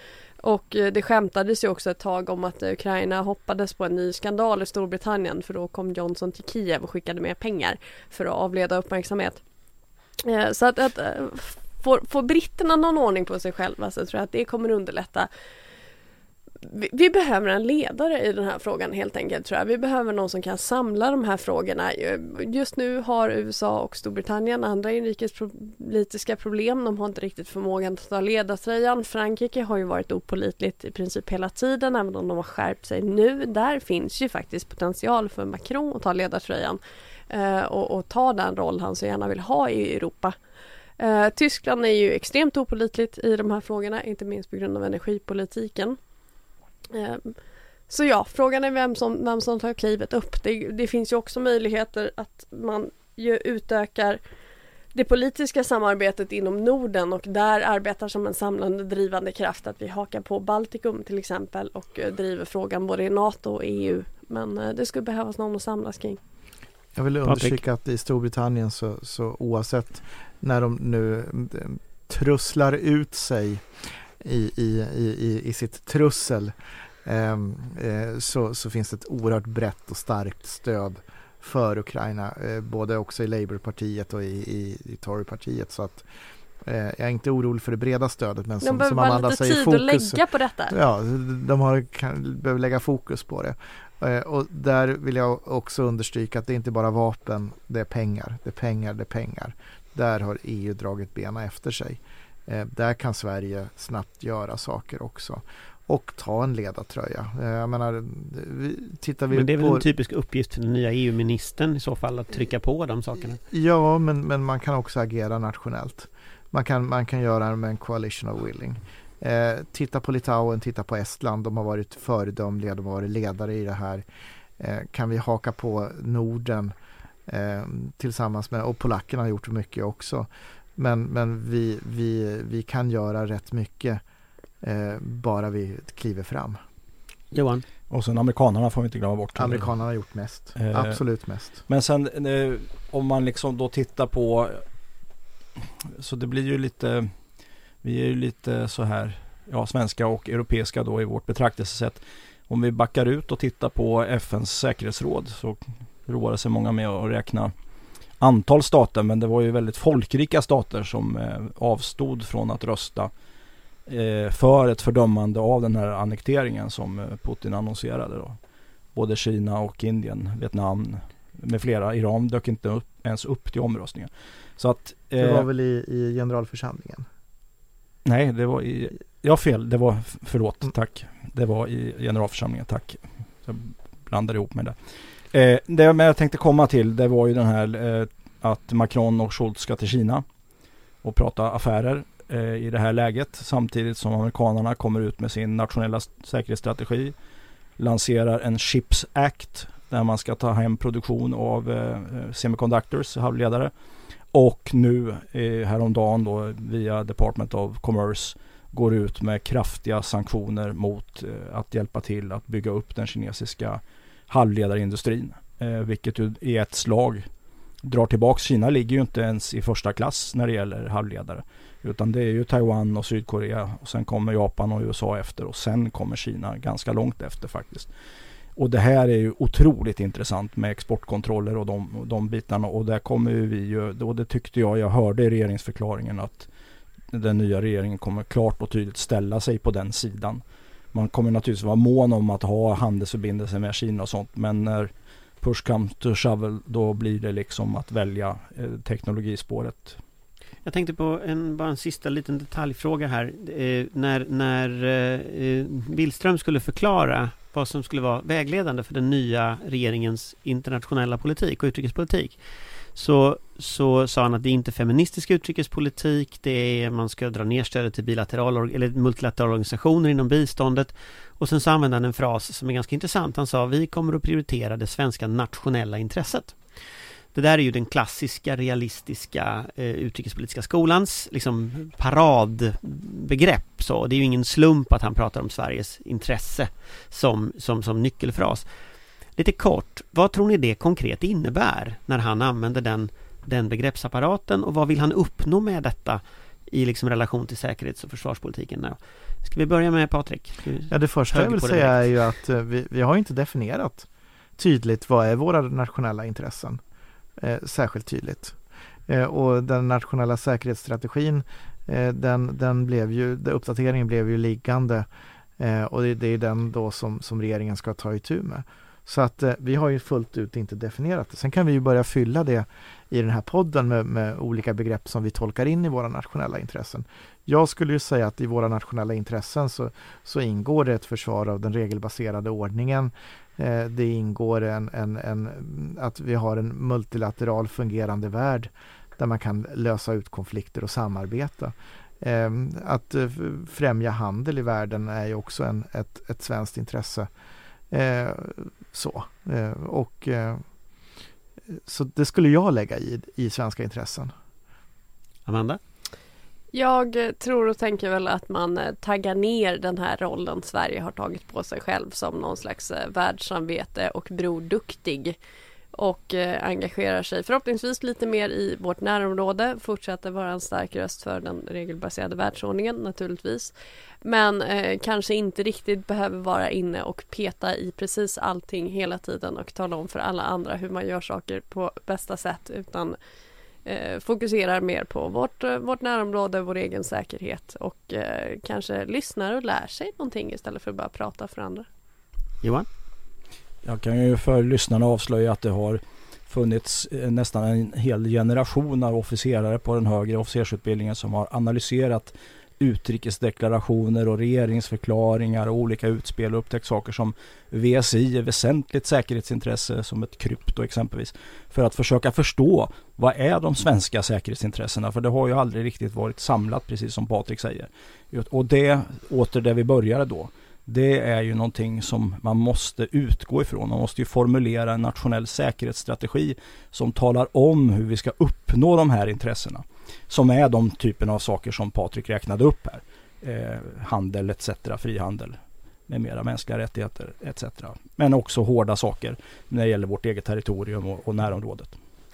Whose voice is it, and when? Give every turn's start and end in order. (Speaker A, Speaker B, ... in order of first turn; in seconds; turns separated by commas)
Speaker A: 0.4-9.4, Speaker A: 10.2-15.3, Speaker A: 16.6-36.8, Speaker A: 37.3-40.4, Speaker A: 41.0-46.0, Speaker A: 46.9-47.3, Speaker A: 47.9-54.2, Speaker A: 54.9-66.2, Speaker B: 67.0-86.0, Speaker C: 67.2-67.6, Speaker B: 86.6-109.9, Speaker A: 88.6-90.8, Speaker C: 109.3-113.4, Speaker B: 113.4-124.0, Speaker B: 124.6-126.7, Speaker B: 127.3-134.0, Speaker B: 134.6-136.6, Speaker C: 137.3-137.7, Speaker D: 137.9-139.7, Speaker B: 139.4-141.6, Speaker D: 140.6-141.0, Speaker D: 141.7-144.6, Speaker D: 145.9-147.1, Speaker D: 147.8-157.5, Speaker D: 158.2-163.1, Speaker D: 163.9-168.4, Speaker D: 168.9-175.5, Speaker B: 175.2-177.1, Speaker D: 178.1-184.8, Speaker D: 185.3-190.2, Speaker D: 191.0-197.1, Speaker D: 197.8-203.7, Speaker D: 204.3-217.3, Speaker D: 217.8-227.9, Speaker D: 228.6-236.5, Speaker D: 237.1-240.4, Speaker D: 240.9-250.0, Speaker C: 250.7-262.4, Speaker C: 262.9-276.6, Speaker C: 277.3-288.7, Speaker C: 289.4-302.2, Speaker B: 300.9-306.8, Speaker B: 307.4-315.1, Speaker B: 315.6-347.3, Speaker B: 347.9-350.6, Speaker B: 351.7-354.3, Speaker C: 355.5-355.8, Speaker A: 356.7-365.4, Speaker A: 365.9-373.7, Speaker A: 374.2-383.2, Speaker A: 383.9-391.9, Speaker D: 393.8-441.9